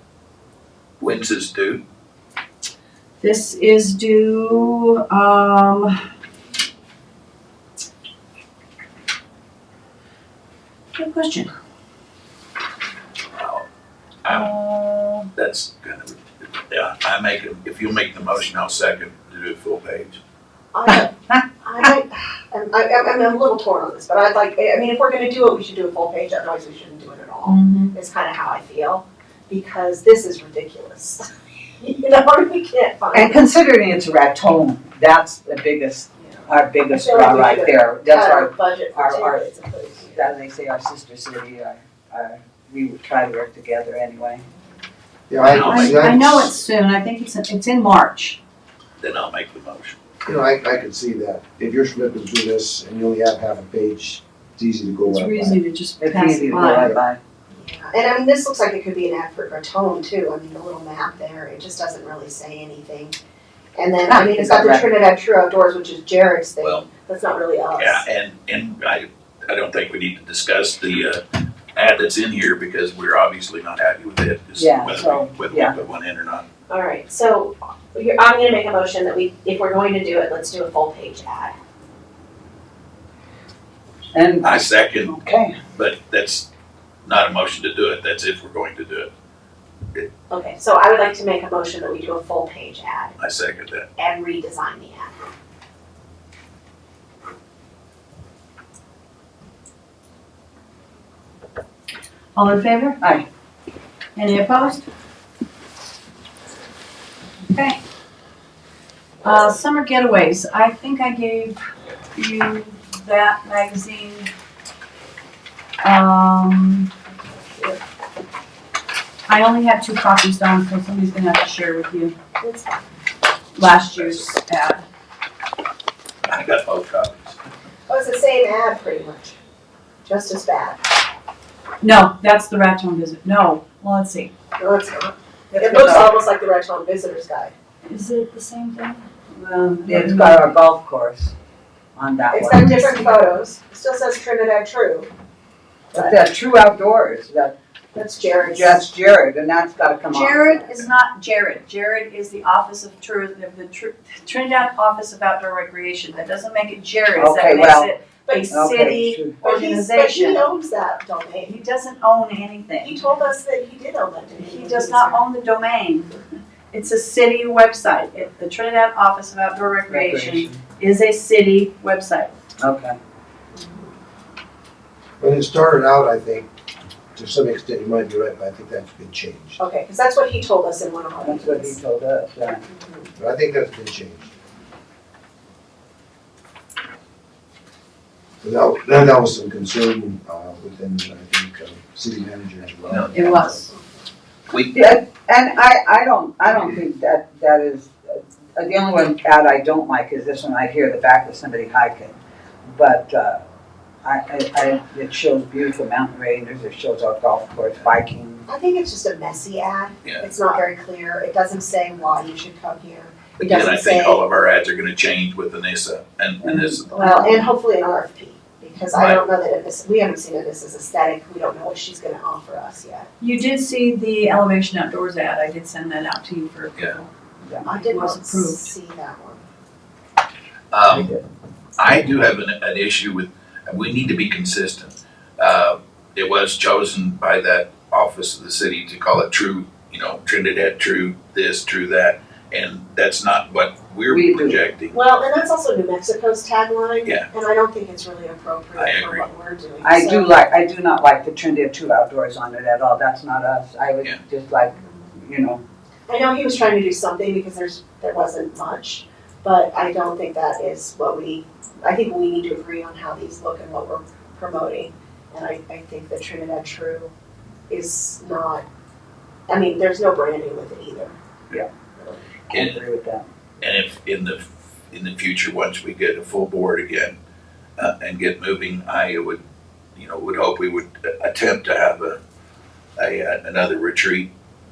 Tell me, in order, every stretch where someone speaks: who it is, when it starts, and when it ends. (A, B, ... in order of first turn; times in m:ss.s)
0:01.0-0:01.8 A
0:03.2-0:06.0 B
0:11.0-0:11.5 B
0:13.4-0:13.6 A
0:14.2-0:14.5 A
0:14.3-0:15.3 B
0:15.4-0:20.2 A
0:20.7-0:31.3 C
0:27.4-0:27.9 B
0:31.8-0:33.4 C
0:33.1-0:44.4 D
0:36.2-0:40.4 C
0:45.3-0:46.6 E
0:45.4-0:46.2 A
0:45.6-0:48.4 B
0:49.0-0:50.0 A
0:50.2-0:55.6 E
0:55.1-0:57.0 B
0:56.0-0:57.2 D
0:57.5-1:03.2 C
1:03.8-1:08.0 C
1:04.1-1:05.0 D
1:06.6-1:06.9 A
1:07.8-1:11.2 A
1:11.7-1:16.4 A
1:14.6-1:15.8 D
1:16.7-1:21.6 C
1:24.1-1:25.6 D
1:24.4-1:25.1 A
1:25.7-1:26.5 A
1:27.0-1:29.1 A
1:30.3-1:33.1 C
1:33.2-1:33.9 A
1:34.0-1:35.1 C
1:42.4-1:43.0 B
1:43.0-1:43.3 D
1:44.2-1:44.8 B
1:47.5-1:47.8 B
1:49.2-1:51.6 B
1:52.2-1:54.3 B
1:55.8-1:56.9 B
1:59.3-2:02.2 B
2:02.4-2:02.8 C
2:03.6-2:04.8 B
2:04.0-2:04.3 A
2:06.3-2:07.4 A
2:07.9-2:09.4 C
2:10.1-2:10.8 C
2:11.8-2:14.3 B
2:14.6-2:17.5 C
2:15.5-2:16.1 D
2:17.8-2:19.1 B
2:19.3-2:21.3 D
2:19.8-2:20.5 B
2:22.0-2:22.8 D
2:22.3-2:25.1 C
2:22.6-2:23.2 B
2:25.9-2:27.6 D
2:25.9-2:26.2 C
2:27.9-2:28.9 C
2:28.4-2:30.6 D
2:30.1-2:40.5 B
2:37.2-2:38.0 D
2:38.3-2:38.7 C
2:38.5-2:39.4 D
2:39.4-2:41.5 C
2:41.5-2:43.1 B
2:42.8-2:45.2 C
2:44.4-2:46.2 B
2:46.7-2:52.4 B
2:49.9-2:50.6 D
2:52.6-2:53.0 D
2:53.6-2:53.9 C
2:55.2-2:56.5 E
2:57.2-2:59.6 E
2:59.6-3:01.8 C
3:01.2-3:02.6 D
3:02.7-3:03.1 C
3:03.2-3:04.3 E
3:08.4-3:13.5 E
3:12.9-3:13.5 A
3:13.1-3:13.7 B
3:14.5-3:14.9 A
3:14.7-3:23.4 D
3:24.0-3:28.5 D
3:28.5-3:34.2 C
3:33.4-3:37.0 A
3:36.4-3:36.8 D
3:36.9-3:43.1 C
3:37.0-3:37.3 B
3:38.9-3:39.2 A
3:43.2-3:47.1 B
3:47.6-3:48.7 B
3:47.6-3:49.4 C
3:50.7-3:51.2 A
3:50.9-3:51.2 D
3:51.8-4:05.0 A
4:04.1-4:04.6 D
4:04.9-4:10.3 C
4:08.8-4:09.3 A
4:09.8-4:15.6 D
4:16.1-4:27.1 C
4:27.7-4:28.6 C
4:29.5-4:31.2 C
4:32.5-4:33.3 D
4:32.5-4:32.8 A
4:33.6-4:37.1 A
4:37.8-4:39.4 A
4:40.0-4:42.2 A
4:43.0-4:44.3 A